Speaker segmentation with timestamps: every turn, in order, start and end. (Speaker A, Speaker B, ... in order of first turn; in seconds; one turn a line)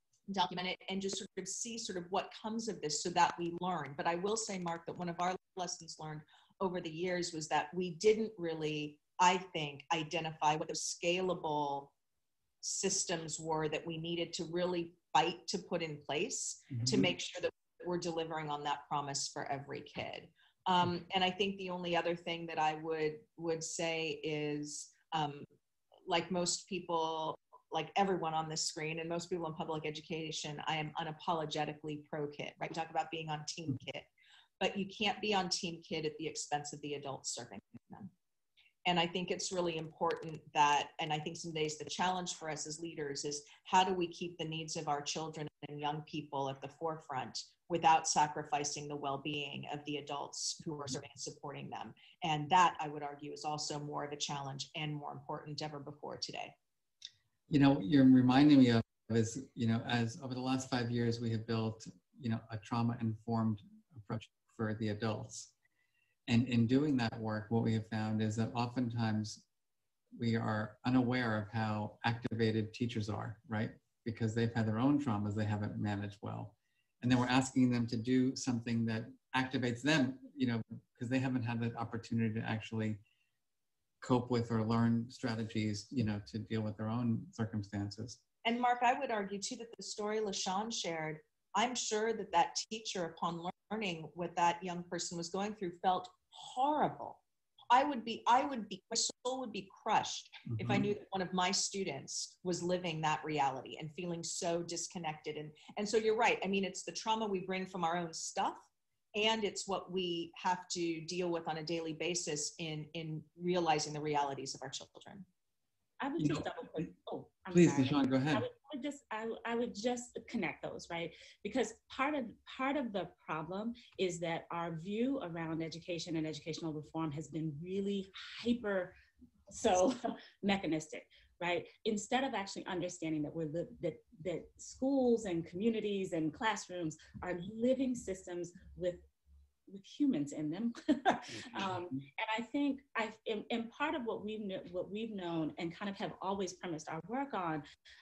Speaker A: 0.3-11.9
Speaker A: 12.6-25.4
Speaker B: 16.7-17.1
Speaker A: 26.1-34.1
Speaker A: 34.6-38.1
Speaker A: 38.9-56.5
Speaker B: 57.5-65.5
Speaker B: 66.3-69.4
Speaker B: 70.1-83.0
Speaker B: 84.0-88.2
Speaker A: 88.4-108.6
Speaker B: 100.5-100.9
Speaker A: 109.1-115.2
Speaker C: 116.0-128.9
Speaker B: 116.2-116.9
Speaker B: 117.5-118.5
Speaker C: 129.5-139.0
Speaker C: 139.7-147.6
Speaker B: 141.4-142.0